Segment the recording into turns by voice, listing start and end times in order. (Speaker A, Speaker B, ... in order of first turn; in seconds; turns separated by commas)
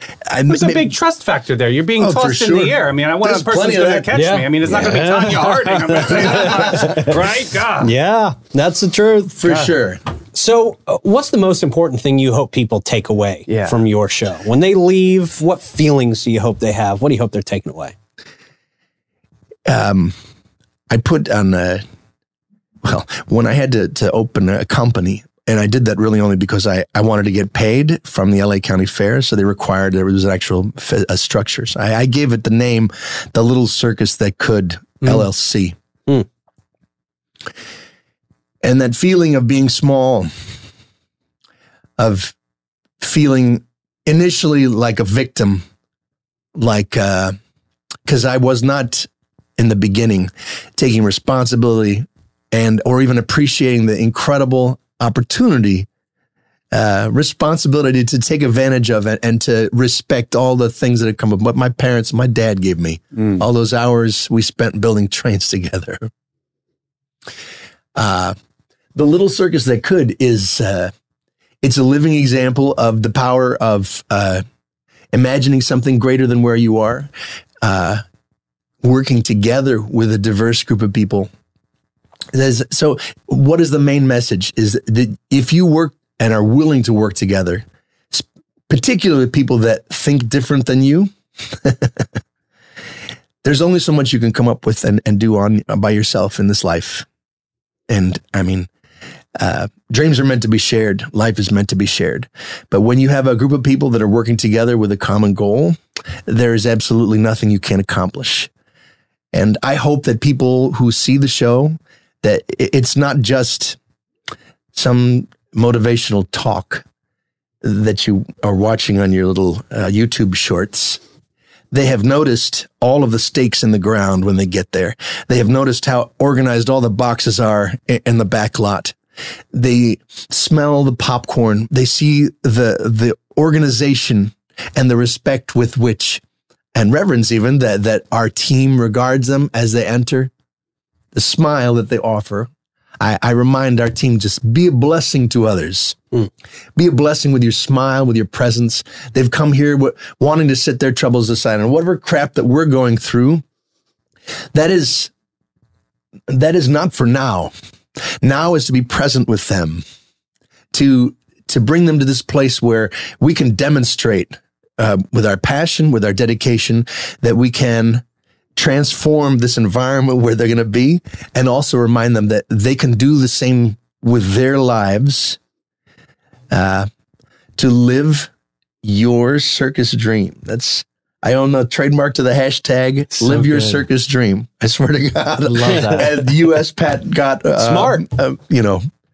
Speaker A: 0.3-0.9, Speaker B: 0.5-7.9, Speaker A: 2.0-4.1, Speaker C: 4.1-7.1, Speaker A: 6.3-6.8, Speaker C: 7.8-9.5, Speaker A: 9.4-10.0, Speaker C: 10.3-17.9, Speaker B: 13.5-13.8, Speaker A: 19.6-20.1, Speaker A: 20.9-21.8, Speaker A: 22.8-35.8, Speaker A: 38.6-40.3, Speaker A: 42.0-42.3, Speaker A: 43.0-45.6, Speaker A: 46.5-47.3, Speaker A: 48.0-55.9, Speaker A: 56.7-66.1, Speaker A: 68.0-68.3, Speaker A: 68.9-70.9, Speaker A: 71.6-74.4, Speaker A: 75.1-77.1, Speaker A: 77.6-78.0, Speaker A: 78.8-81.3, Speaker A: 82.3-92.1, Speaker A: 93.4-97.0, Speaker A: 97.9-98.7, Speaker A: 99.4-108.5, Speaker A: 109.3-113.8, Speaker A: 114.7-116.8, Speaker A: 117.6-121.0, Speaker A: 121.7-128.9, Speaker A: 129.5-136.2, Speaker A: 136.7-140.3, Speaker A: 141.1-146.0, Speaker A: 146.8-153.4, Speaker A: 154.5-155.1, Speaker A: 156.3-157.5, Speaker A: 158.2-159.8, Speaker A: 160.7-168.0, Speaker A: 168.6-175.4, Speaker A: 176.5-176.9, Speaker A: 177.6-178.3, Speaker A: 178.8-188.8, Speaker B: 183.2-183.5, Speaker B: 185.5-186.2, Speaker C: 187.6-188.0